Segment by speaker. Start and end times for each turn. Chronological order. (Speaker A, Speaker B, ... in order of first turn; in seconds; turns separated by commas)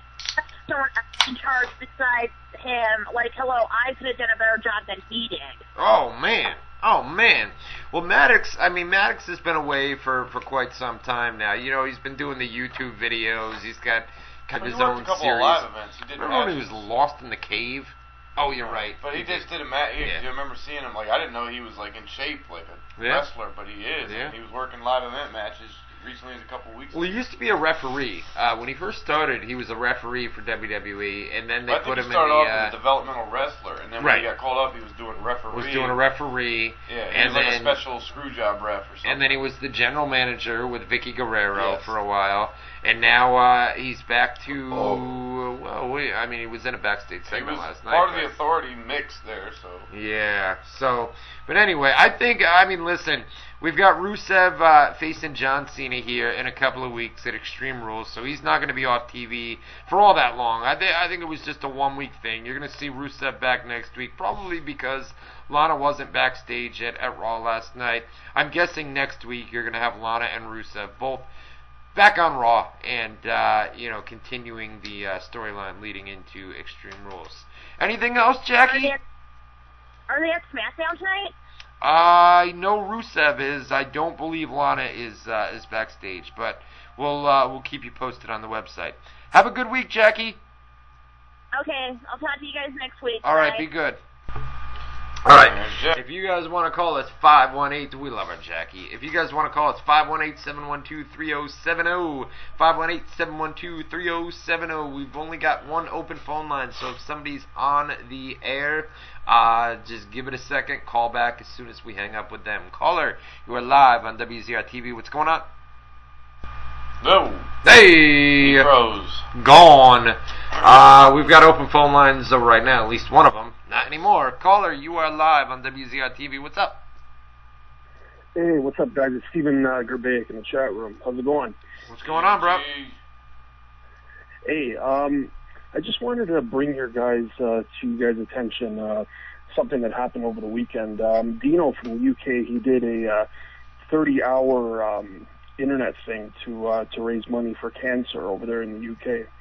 Speaker A: 0.4-5.7, Speaker B: 5.8-15.7, Speaker C: 14.6-16.8, Speaker B: 16.2-20.2, Speaker C: 18.4-27.2, Speaker B: 23.0-23.2, Speaker B: 24.1-24.3, Speaker B: 26.9-32.8, Speaker C: 31.7-36.0, Speaker B: 34.0-34.3, Speaker B: 35.5-37.8, Speaker C: 36.9-39.4, Speaker B: 39.0-48.3, Speaker C: 41.5-41.9, Speaker C: 44.6-45.1, Speaker C: 47.3-49.9, Speaker B: 49.9-71.3, Speaker B: 72.0-78.9, Speaker A: 78.7-79.0, Speaker A: 80.1-81.3, Speaker B: 81.8-90.4, Speaker A: 91.5-93.6, Speaker B: 93.2-94.0, Speaker B: 95.2-115.5, Speaker C: 95.3-96.0, Speaker C: 117.0-117.5, Speaker B: 117.6-118.7, Speaker C: 118.4-119.2, Speaker B: 119.3-126.8, Speaker C: 120.6-120.8, Speaker D: 128.3-131.6, Speaker B: 131.9-132.7, Speaker C: 132.0-133.0, Speaker D: 134.5-143.3, Speaker D: 143.9-149.3